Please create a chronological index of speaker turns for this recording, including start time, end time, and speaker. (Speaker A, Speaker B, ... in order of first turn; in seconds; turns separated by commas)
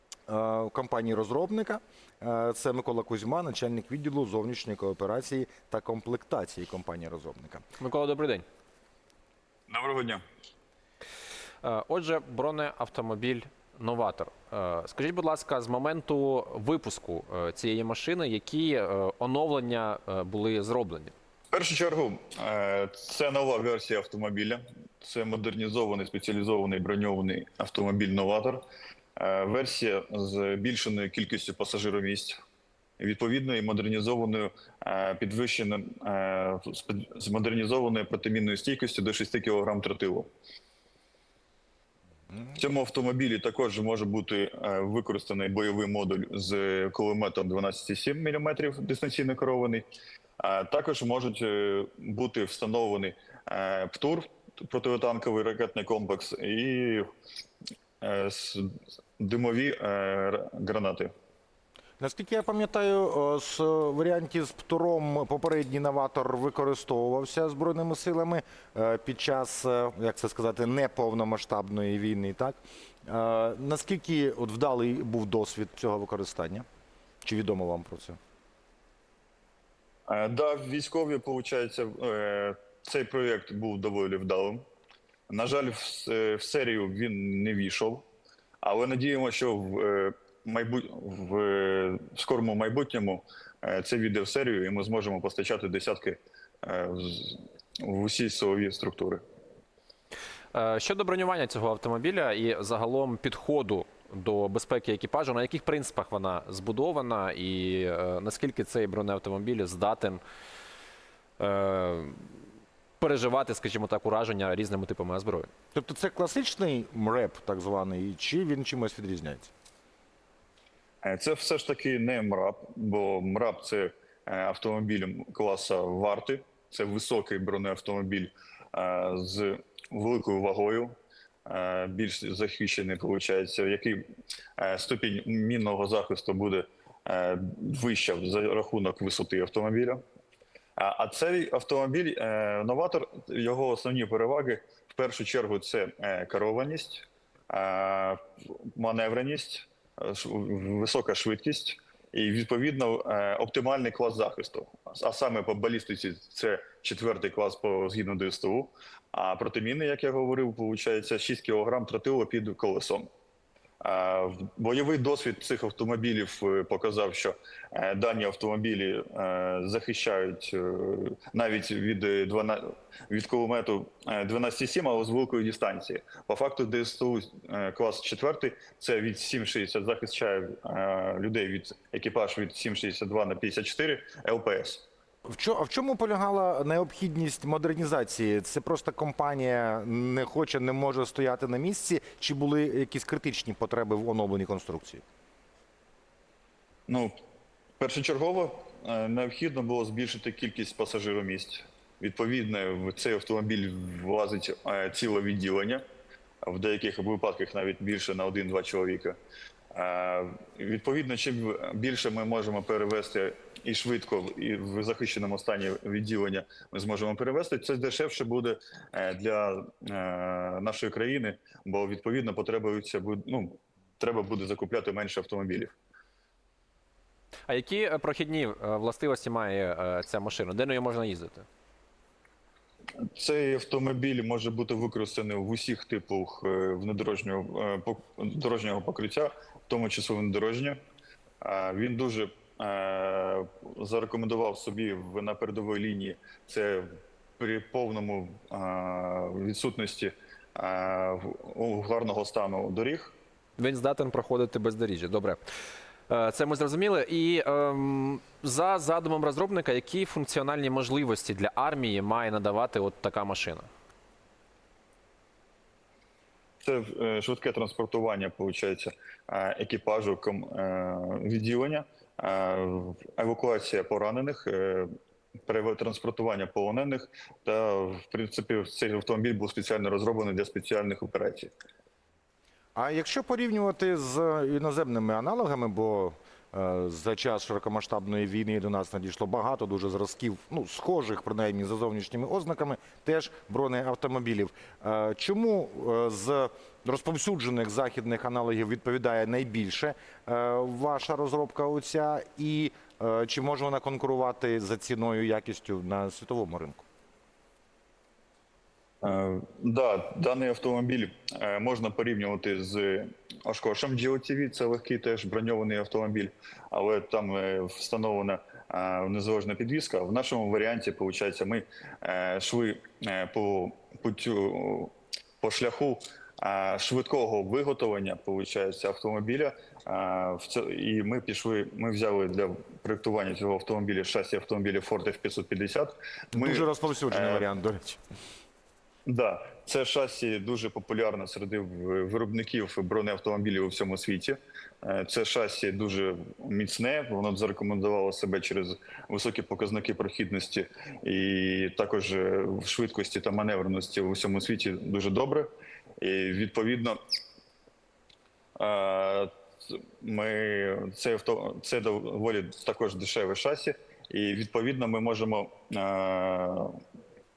Speaker A: 0.3-7.6, Speaker B: 7.8-8.4, Speaker C: 9.7-10.2, Speaker B: 11.6-21.1, Speaker C: 21.5-28.6, Speaker C: 29.2-32.4, Speaker C: 33.0-40.3, Speaker C: 42.5-49.8, Speaker C: 50.4-57.0, Speaker C: 58.0-58.6, Speaker C: 59.2-61.1, Speaker A: 62.0-76.6, Speaker A: 77.2-78.2, Speaker C: 80.1-84.6, Speaker C: 85.3-88.0, Speaker C: 88.6-99.2, Speaker B: 100.5-110.2, Speaker B: 111.4-112.3, Speaker B: 113.0-115.5, Speaker A: 115.7-119.5, Speaker C: 121.0-130.9, Speaker C: 131.5-134.0, Speaker C: 134.6-140.0, Speaker C: 140.8-148.2, Speaker C: 148.7-163.1, Speaker C: 163.8-184.8, Speaker A: 185.3-195.0, Speaker C: 196.9-197.1, Speaker C: 197.8-205.8, Speaker C: 206.4-209.2, Speaker C: 209.7-225.7, Speaker B: 227.5-231.4, Speaker C: 233.1-240.8, Speaker C: 241.4-253.1, Speaker B: 253.6-255.4, Speaker B: 256.1-263.7, Speaker C: 266.6-274.9, Speaker C: 275.5-281.5, Speaker A: 282.8-306.8, Speaker C: 309.0-337.4, Speaker A: 336.3-338.0, Speaker C: 339.1-357.0, Speaker C: 358.6-366.8